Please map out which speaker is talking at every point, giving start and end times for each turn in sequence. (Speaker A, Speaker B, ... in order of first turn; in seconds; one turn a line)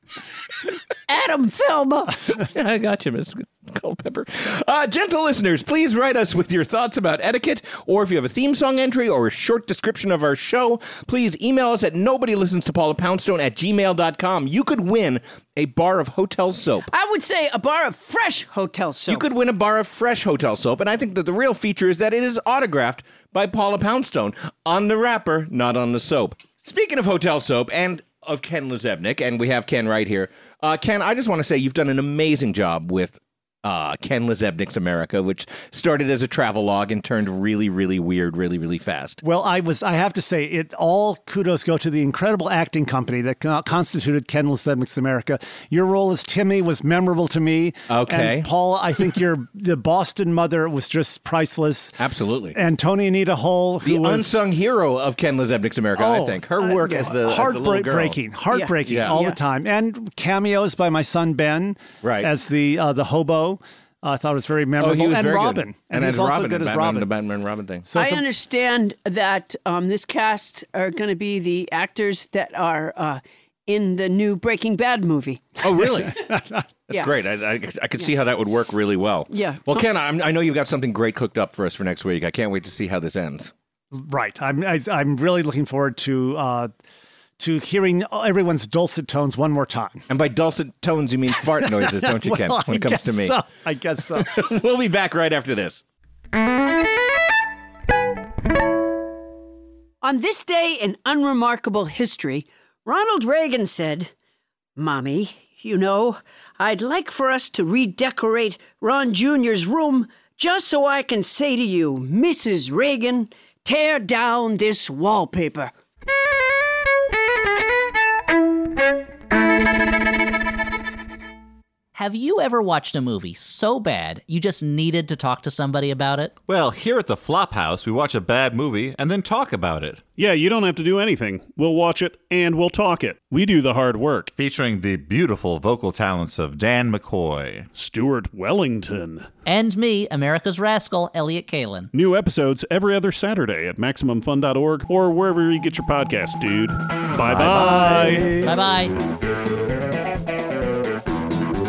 Speaker A: 1.1-2.2
Speaker B: 2.4-16.9
Speaker A: 16.9-19.2
Speaker B: 19.1-39.2
Speaker C: 39.2-52.0
Speaker B: 47.9-48.5
Speaker B: 52.0-52.6
Speaker C: 52.5-54.4
Speaker B: 53.8-58.2
Speaker C: 56.0-67.1
Speaker A: 58.5-59.4
Speaker B: 58.9-59.1
Speaker B: 62.0-62.3
Speaker B: 64.8-67.9
Speaker C: 67.9-68.2
Speaker A: 67.9-75.4
Speaker B: 75.6-76.2
Speaker C: 76.2-76.7
Speaker B: 76.9-83.5
Speaker A: 79.3-79.9
Speaker C: 83.9-86.7
Speaker C: 87.4-90.0
Speaker B: 90.1-93.4
Speaker C: 91.6-94.5
Speaker B: 94.2-95.8
Speaker A: 100.0-104.1
Speaker A: 104.8-115.7
Speaker D: 121.9-126.3
Speaker E: 126.5-130.0
Speaker F: 130.2-134.3
Speaker E: 134.4-137.7
Speaker F: 137.7-139.3
Speaker D: 139.4-141.9
Speaker F: 141.9-148.4
Speaker C: 147.4-148.5
Speaker D: 148.4-148.9